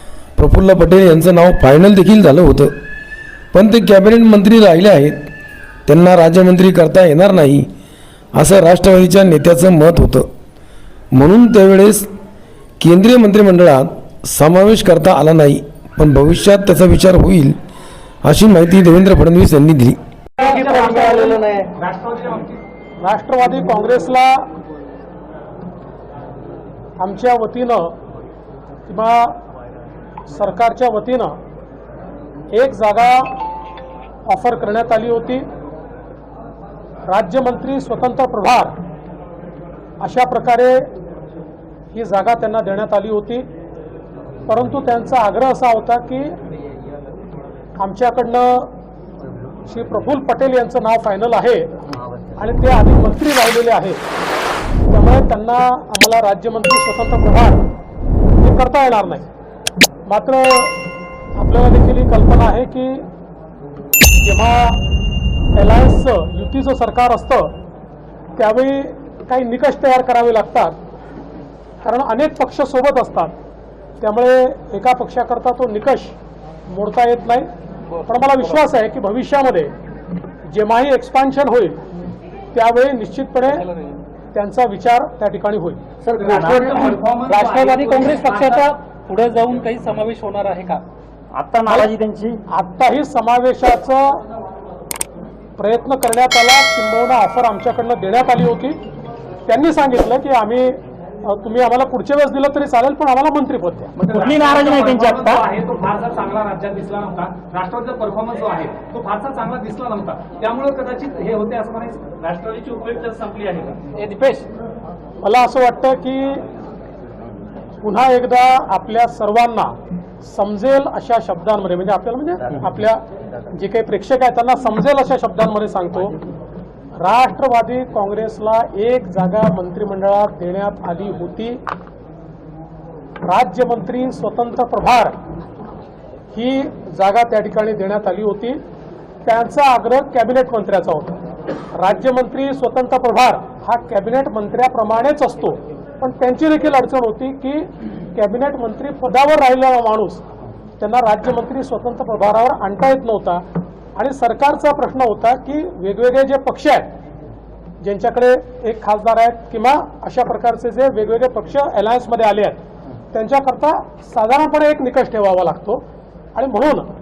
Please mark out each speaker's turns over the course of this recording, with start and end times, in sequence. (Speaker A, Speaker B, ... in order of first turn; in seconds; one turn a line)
Speaker A: 0.4-2.7
Speaker A: 3.5-5.2
Speaker A: 5.9-7.7
Speaker A: 8.3-10.3
Speaker A: 11.1-12.1
Speaker A: 12.8-17.6
Speaker A: 18.2-20.0
Speaker B: 20.4-21.7
Speaker C: 20.4-22.6
Speaker D: 23.0-24.5
Speaker D: 27.0-27.9
Speaker D: 28.9-29.4
Speaker D: 30.3-31.3
Speaker D: 32.5-33.4
Speaker D: 34.3-35.5
Speaker D: 37.1-38.7
Speaker D: 40.0-40.9
Speaker D: 41.9-43.5
Speaker D: 44.5-46.4
Speaker D: 47.8-48.7
Speaker D: 49.7-54.0
Speaker D: 54.9-57.6
Speaker D: 58.4-59.3
Speaker D: 60.0-60.8
Speaker D: 61.4-63.0
Speaker D: 64.2-64.8
Speaker D: 65.5-67.5
Speaker D: 68.3-70.7
Speaker D: 71.8-73.3
Speaker D: 74.0-76.2
Speaker D: 76.7-77.5
Speaker D: 78.0-79.7
Speaker D: 80.5-81.8
Speaker D: 82.5-83.7
Speaker D: 84.3-85.8
Speaker B: 86.0-87.0
Speaker C: 86.1-88.7
Speaker E: 87.3-90.8
Speaker B: 91.3-92.4
Speaker D: 92.5-94.2
Speaker D: 95.6-98.8
Speaker D: 99.5-103.9
Speaker C: 104.0-114.0
Speaker B: 104.0-105.4
Speaker E: 114.1-114.3
Speaker D: 115.2-116.4
Speaker D: 117.8-126.1
Speaker D: 127.0-131.6
Speaker D: 133.2-135.1
Speaker D: 136.3-138.6
Speaker D: 139.2-150.2
Speaker D: 150.8-153.4
Speaker D: 153.9-156.9
Speaker D: 157.8-162.6
Speaker D: 163.1-165.8
Speaker D: 166.3-166.9